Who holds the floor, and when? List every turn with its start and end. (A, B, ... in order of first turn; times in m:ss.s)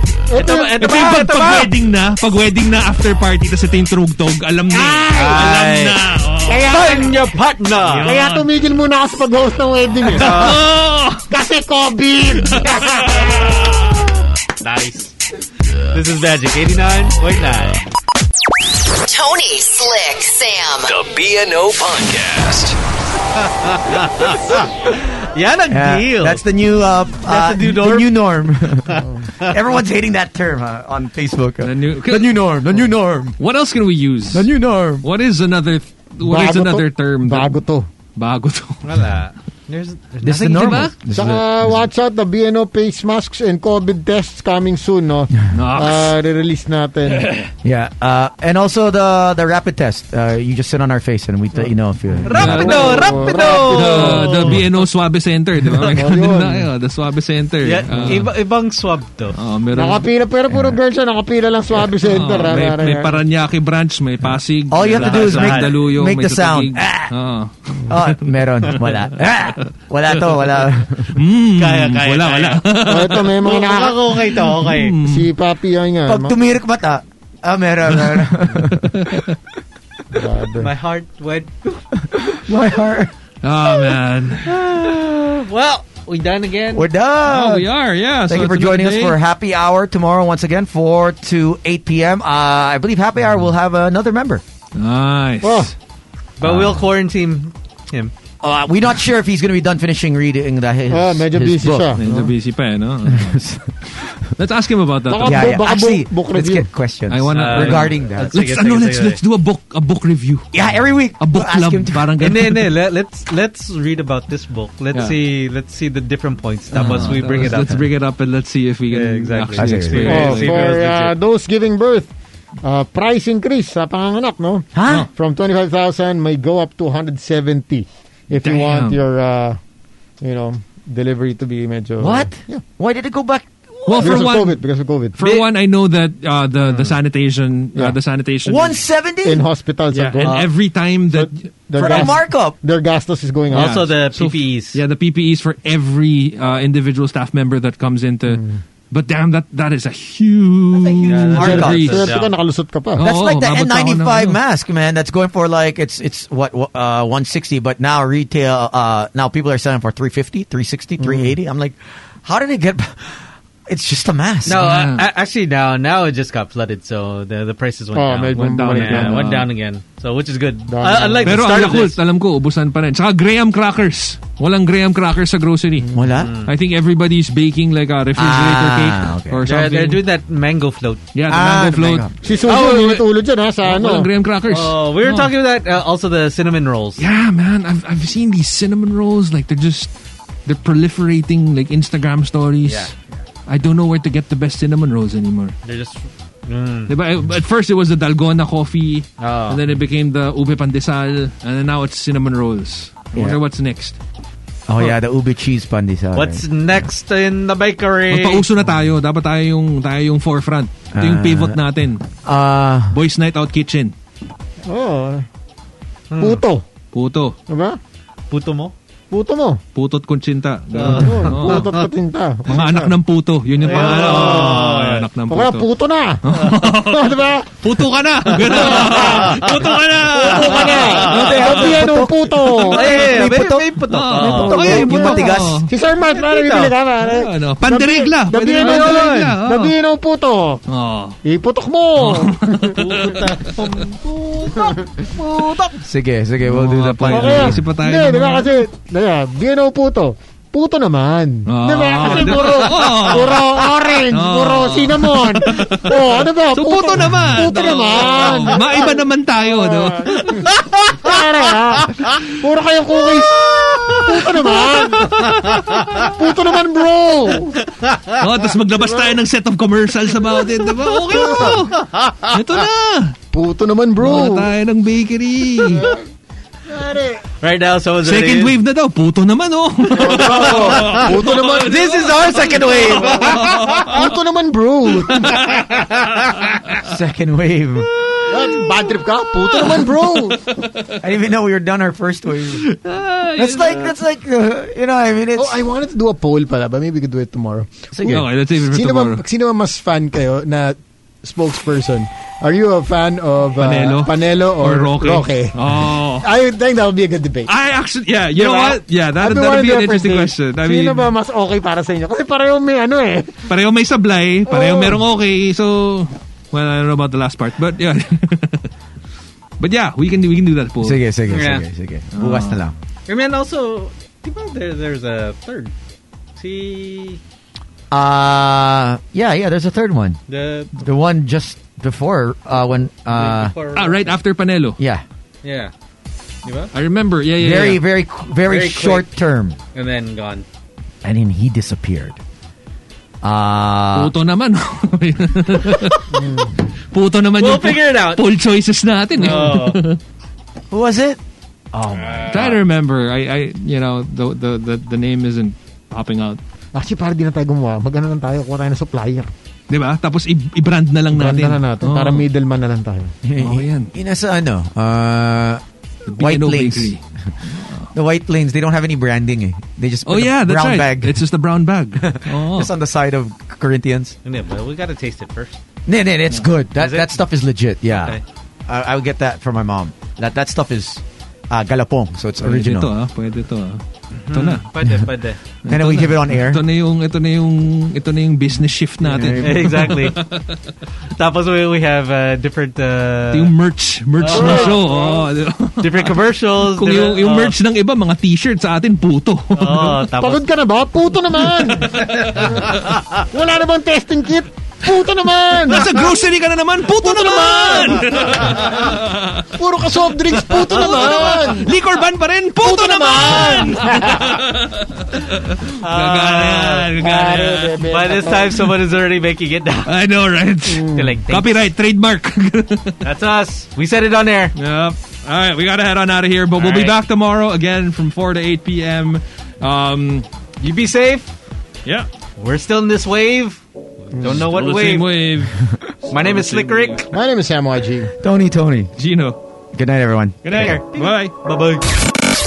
0:00.3-0:00.9 A
0:00.3-0:01.7 B
0:00.8-0:06.8 C
0:04.7-0:05.6 A
0:05.1-0:06.0 B
0:06.4-0:07.3 A
0:06.7-0:08.1 B
0:07.8-0:08.5 C
0:08.0-0:10.5 A
0:10.1-0:11.3 C
0:10.2-0:10.6 B
0:11.3-0:13.7 A
0:12.5-0:13.2 C
0:14.6-0:15.1 B
0:15.9-0:17.9 B
0:18.9-0:21.0 D
0:20.8-0:22.8 E
0:23.3-0:26.4 B
0:25.7-0:33.4 F
0:27.2-0:28.1 B
0:31.6-0:32.6 C
0:33.4-0:37.5 C
0:34.3-0:35.0 F
0:36.2-0:37.9 A
0:38.2-0:39.0 C
0:38.8-0:40.8 B
0:40.2-0:41.9 F
0:40.4-0:40.9 C
0:41.1-0:47.5 A
0:45.5-0:46.1 C
0:47.1-0:47.5 C
0:47.6-0:52.9 F
0:51.6-0:54.6 A
0:52.3-0:54.6 B
0:52.3-0:58.3 C
0:55.8-0:56.7 A
0:57.6-0:59.4 B
0:59.3-1:00.1 C
0:59.7-1:03.2 A
1:02.0-1:09.0 C
1:04.7-1:07.1 F
1:04.9-1:05.7 B
1:07.9-1:11.2 F
1:10.2-1:13.4 C
1:11.6-1:12.7 B
1:12.8-1:14.1 A
1:13.4-1:15.0 B
1:14.3-1:15.3 C
1:15.0-1:16.4 A
1:16.1-1:19.2 F
1:18.0-1:19.3 C
1:20.1-1:20.7 A
1:20.6-1:21.8 B
1:22.3-1:23.1 F
1:23.4-1:24.6 C
1:24.5-1:25.4 F
1:25.4-1:26.9 B
1:26.7-1:27.7 F
1:27.2-1:29.2 C
1:28.3-1:34.4 F
1:34.7-1:35.7 C
1:35.4-1:35.7 A
1:36.4-1:38.1 B
1:36.4-1:36.8 F
1:38.4-1:42.0 F
1:40.9-1:42.3 A
1:42.0-1:43.4 C
1:43.0-1:44.2 F
1:44.4-1:45.6 C
1:45.1-1:46.7 A
1:45.2-1:48.4 F
1:47.1-1:50.5 C
1:47.3-1:49.2 B
1:50.5-1:52.1 F
1:51.2-1:52.7 C
1:52.2-1:57.8 B
1:56.7-1:57.8 F
1:56.9-2:00.7 C
1:58.9-2:01.1 B
1:59.6-2:00.3 F
2:00.0-2:09.6 A
2:04.7-2:05.1 F
2:08.4-2:09.0 C
2:10.2-2:12.6 A
2:12.0-2:14.3 F
2:13.8-2:14.6 C
2:14.0-2:15.2 A
2:15.2-2:18.8 C
2:15.2-2:15.4 B
2:18.4-2:19.4 F
2:19.2-2:20.5 A
2:20.0-2:22.1 C
2:20.2-2:20.5 B
2:21.1-2:23.9 A
2:21.8-2:22.6 F
2:23.5-2:24.8 B
2:23.5-2:32.1 C
2:28.3-2:28.6 A
2:30.8-2:32.0 F
2:31.0-2:32.3 B
2:31.4-2:33.0 A
2:33.0-2:34.4 C
2:33.0-2:44.6 F
2:41.0-2:41.3 A
2:44.4-2:52.0 B
2:44.5-2:45.1 C
2:47.9-2:49.4 A
2:48.3-2:49.5 C
2:50.7-2:51.4 A
2:51.2-2:55.9 C
2:55.8-2:56.1 A
2:55.9-2:56.3 F
2:56.2-2:56.5 B
2:56.4-3:00.0 C
2:58.2-2:59.4 F
2:59.5-3:01.0 B
3:01.1-3:03.0 C
3:01.3-3:02.1 F
3:02.2-3:04.1 A
3:02.4-3:03.0 B
3:03.6-3:05.3 C
3:04.5-3:07.0 B
3:07.0-3:09.9 C
3:10.4-3:12.9 C
3:13.5-3:15.5 C
3:15.6-3:16.9 B
3:16.9-3:24.0 C
3:19.2-3:19.6 B
3:24.7-3:26.4 F
3:26.1-3:28.4 B
3:28.1-3:32.1 C
3:30.9-3:31.6 F
3:32.2-3:33.0 F
3:32.9-3:33.9 C
3:34.7-3:35.3 A
3:36.1-3:36.4 B
3:36.2-3:36.6 A
3:36.9-3:37.4 C
3:37.5-3:37.8 A
3:38.3-3:38.7 B
3:39.1-3:39.6 A
3:39.7-3:41.7 C
3:40.7-3:41.8 B
3:40.8-3:42.9 A
3:42.5-3:45.7 C
3:43.6-3:45.1 B
3:45.3-3:47.7 A
3:46.2-3:51.9 C
3:48.3-3:49.6 A
3:48.3-3:51.4 B
3:50.1-3:53.0 A
3:51.1-3:55.6 F
3:52.7-3:54.9 B
3:53.9-3:55.7 C
3:54.4-4:00.6 A
3:56.1-3:56.7 B
3:57.0-3:59.7 C
3:58.4-3:59.4 B
4:00.7-4:01.2 C
4:01.2-4:02.8 A
4:02.0-4:03.2 C
4:02.8-4:05.8 B
4:05.8-4:07.7 F
4:06.4-4:08.6 C
4:07.1-4:27.6 A
4:11.5-4:20.6 C
4:12.0-4:13.0 B
4:23.4-4:24.0 B
4:23.7-4:26.1 C
4:25.0-4:26.1 B
4:27.6-4:28.2 B
4:28.2-4:33.2 C
4:31.1-4:31.6 A
4:31.8-4:32.3 B
4:33.3-4:34.5 A
4:34.0-4:35.9 C
4:35.7-4:36.0 A
4:36.7-4:37.2 A
4:37.4-4:38.5 B
4:38.0-4:44.0 C
4:39.9-4:43.6 B
4:39.9-4:41.8 A
4:42.9-4:45.4 A
4:45.1-4:45.9 C
4:45.5-4:46.6 B
4:46.8-4:47.9 F
4:48.3-4:50.4 A
4:49.5-4:50.9 C
4:51.0-4:52.7 F
4:52.6-4:53.9 C
4:53.3-4:55.6 F
4:55.4-4:57.8 A
4:57.9-4:58.3 F
4:58.0-4:59.2 C
4:58.6-5:07.5 A
5:03.6-5:06.3 C
5:07.5-5:11.1 C
5:08.3-5:13.5 A
5:13.5-5:18.7 C
5:14.5-5:15.0 A
5:19.6-5:21.0 C
5:20.8-5:22.7 F
5:21.3-5:21.6 B
5:22.1-5:22.6 C
5:23.1-5:25.7 B
5:26.4-5:27.2 B
5:27.9-5:30.2 F
5:30.3-5:30.7 B
5:30.8-5:33.5 F
5:33.1-5:34.2 B
5:33.7-5:34.8 C
5:34.8-5:35.0 F
5:35.4-5:35.7 B
5:36.4-5:36.7 B
5:36.7-5:37.8 C
5:37.4-5:39.6 F
5:38.4-5:39.1 B
5:39.7-5:40.4 B
5:41.0-5:42.2 F
5:43.2-5:44.1 F
5:43.9-5:46.2 C
5:46.1-5:46.5 A
5:46.9-5:50.0 C
5:47.4-5:48.2 B
5:49.2-5:49.8 B
5:50.7-5:51.2 F
5:51.7-5:52.6 F
5:51.9-5:52.6 B
5:52.3-5:56.4 C
5:56.7-5:59.3 A
5:59.7-6:02.2 C
6:01.1-6:03.1 A
6:03.2-6:05.6 F
6:03.4-6:03.9 C
6:06.1-6:07.9 C
6:06.1-6:07.0 F
6:07.9-6:11.2 F
6:10.0-6:12.7 C
6:12.0-6:14.2 F
6:14.2-6:15.6 B
6:15.8-6:22.9 F
6:16.8-6:17.2 B
6:17.8-6:18.2 B
6:22.4-6:24.6 C
6:24.1-6:25.4 B
6:25.7-6:30.6 C
6:25.7-6:26.6 F
6:29.0-6:29.9 F
6:29.3-6:30.2 B
6:31.1-6:33.5 B
6:33.3-6:40.0 C
6:34.2-6:35.1 B
6:34.3-6:34.9 A
6:35.8-6:37.6 B
6:39.5-6:40.4 B
6:40.2-6:46.1 A
6:41.9-6:42.2 C
6:42.0-6:43.0 B
6:45.7-6:49.4 C
6:47.0-6:48.1 A
6:49.5-6:51.8 A
6:50.4-6:57.8 C
6:52.6-6:54.4 A
6:55.6-6:57.2 B
6:57.0-6:58.7 A
6:57.8-6:59.9 B
6:59.8-7:03.0 C
7:00.7-7:01.1 A
7:00.9-7:01.6 B
7:03.0-7:04.5 B
7:04.6-7:10.3 C
7:06.6-7:07.0 B
7:10.6-7:11.3 B
7:12.4-7:15.1 B
7:14.4-7:17.0 C
7:16.1-7:17.1 B
7:17.1-7:18.1 A
7:18.2-7:18.9 F
7:19.0-7:19.4 C
7:19.7-7:20.8 F
7:20.4-7:21.8 B
7:20.4-7:21.3 C